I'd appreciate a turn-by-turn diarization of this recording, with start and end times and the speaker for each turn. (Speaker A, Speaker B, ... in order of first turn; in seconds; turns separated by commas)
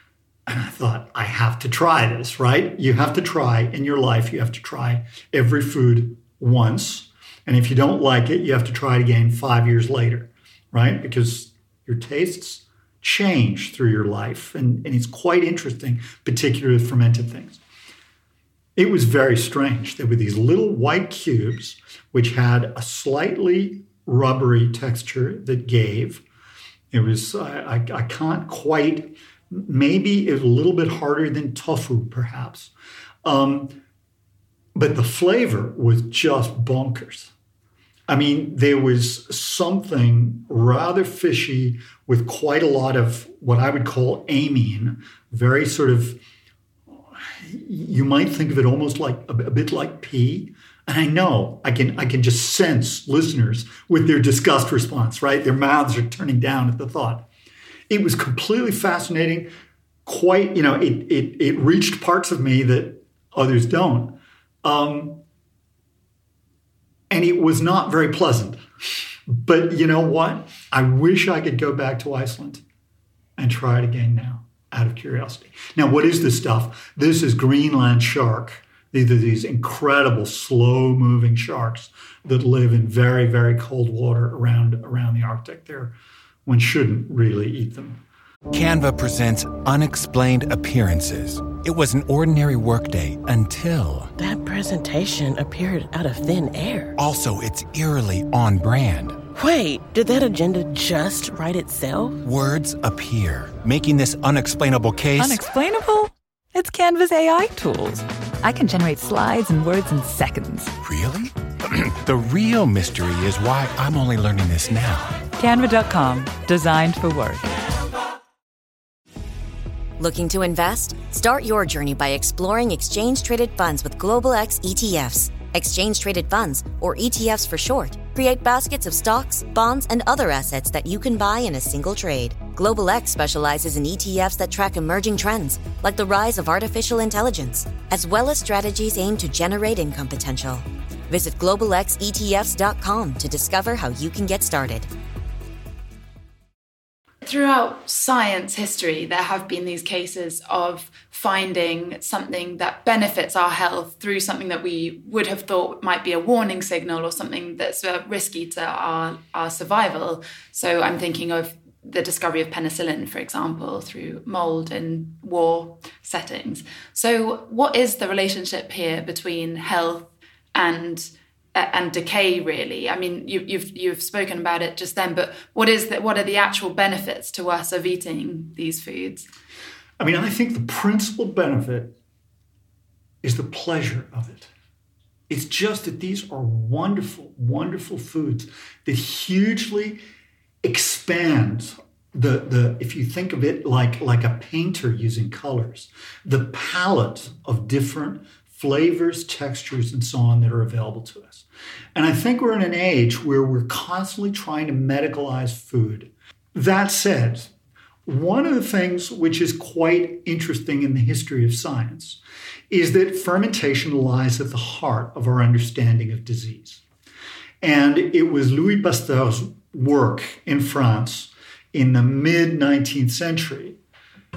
Speaker A: 0.5-17.6, Speaker A: 18.8-26.2, Speaker A: 26.9-32.7, Speaker A: 33.2-33.8, Speaker A: 34.7-37.3, Speaker A: 38.1-46.2, Speaker A: 47.3-57.2, Speaker A: 57.9-59.5, Speaker A: 60.0-65.2, Speaker A: 67.1-68.6, Speaker A: 69.3-72.6, Speaker A: 73.4-85.9, Speaker A: 86.5-88.0, Speaker B: 88.5-94.1, Speaker C: 94.2-96.9, Speaker B: 97.0-99.2, Speaker C: 99.3-102.2, Speaker B: 102.2-105.4, Speaker D: 105.2-110.7, Speaker B: 110.8-115.2, Speaker D: 115.4-117.5, Speaker E: 120.0-144.9, Speaker F: 147.2-179.3, Speaker A: 180.0-181.9, Speaker A: 183.2-184.5, Speaker A: 185.3-190.0, Speaker A: 190.6-207.5, Speaker A: 208.1-216.8, Speaker A: 217.6-223.8